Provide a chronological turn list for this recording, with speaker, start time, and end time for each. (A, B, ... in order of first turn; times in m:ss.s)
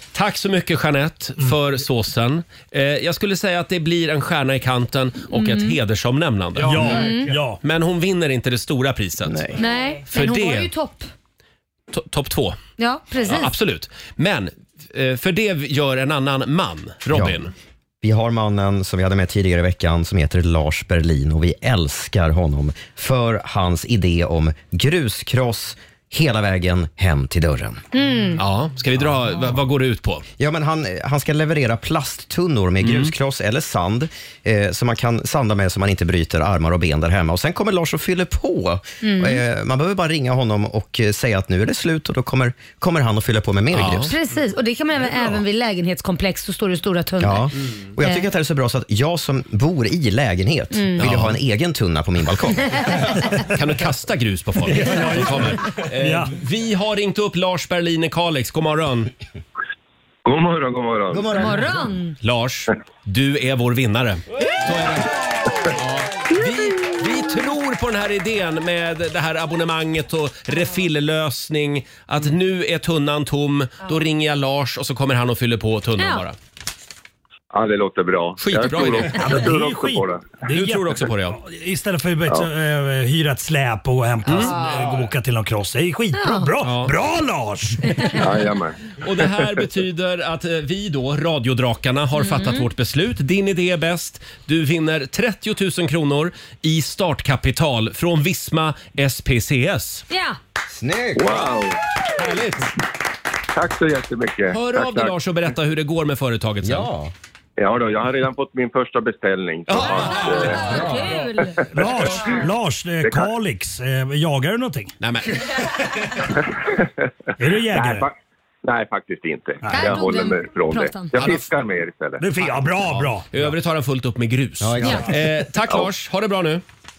0:00.1-0:09.5 A
0:05.3-0:05.8 B
0:06.6-0:07.6 C
0:06.9-0:07.3 B
0:09.5-0:11.1 B
0:10.1-0:10.7 A
0:11.9-0:12.6 A
0:12.8-0:13.5 B
0:13.2-0:17.5 A
0:17.1-0:17.4 D
0:18.0-0:27.8 D
0:27.9-0:28.4 B
0:28.4-0:30.2 A
0:30.4-0:44.1 D
0:32.8-0:33.1 A
0:39.0-0:39.4 B
0:43.7-0:44.1 A
0:44.0-0:48.3 B
0:47.2-0:53.0 D
0:50.7-0:51.0 B
0:51.0-0:51.4 A
0:52.7-0:53.0 B
0:53.5-0:59.1 A
0:54.6-0:56.3 C
1:00.2-1:01.3 E
1:01.1-1:01.8 D
1:01.3-1:02.2 B
1:02.2-1:05.1 A
1:05.7-1:16.4 A
1:06.6-1:07.1 B
1:16.0-1:16.2 B
1:17.5-1:20.3 E
1:18.4-1:19.5 A
1:19.1-1:27.8 C
1:20.5-1:21.4 A
1:24.2-1:24.6 A
1:26.1-1:26.5 B
1:26.6-1:26.9 A
1:27.9-1:28.2 B
1:28.2-1:29.5 E
1:29.0-1:40.0 A
1:32.1-1:32.7 B
1:40.1-1:40.4 B
1:40.7-1:41.4 D
1:41.2-1:41.8 E
1:42.2-1:42.7 A
1:43.5-1:45.1 E
1:44.5-1:46.9 A
1:46.6-1:47.1 D
1:47.6-1:50.7 E
1:49.7-1:50.9 A
1:49.9-1:52.2 B
1:51.7-1:54.9 C
1:53.0-1:53.3 E
1:55.0-1:55.4 A
1:57.4-1:58.0 C
1:57.7-1:58.1 E
1:58.6-2:02.2 E
1:59.6-2:00.0 C
1:59.7-2:01.2 B
2:01.2-2:01.4 A
2:02.2-2:03.4 C
2:02.8-2:06.6 A
2:04.6-2:05.1 D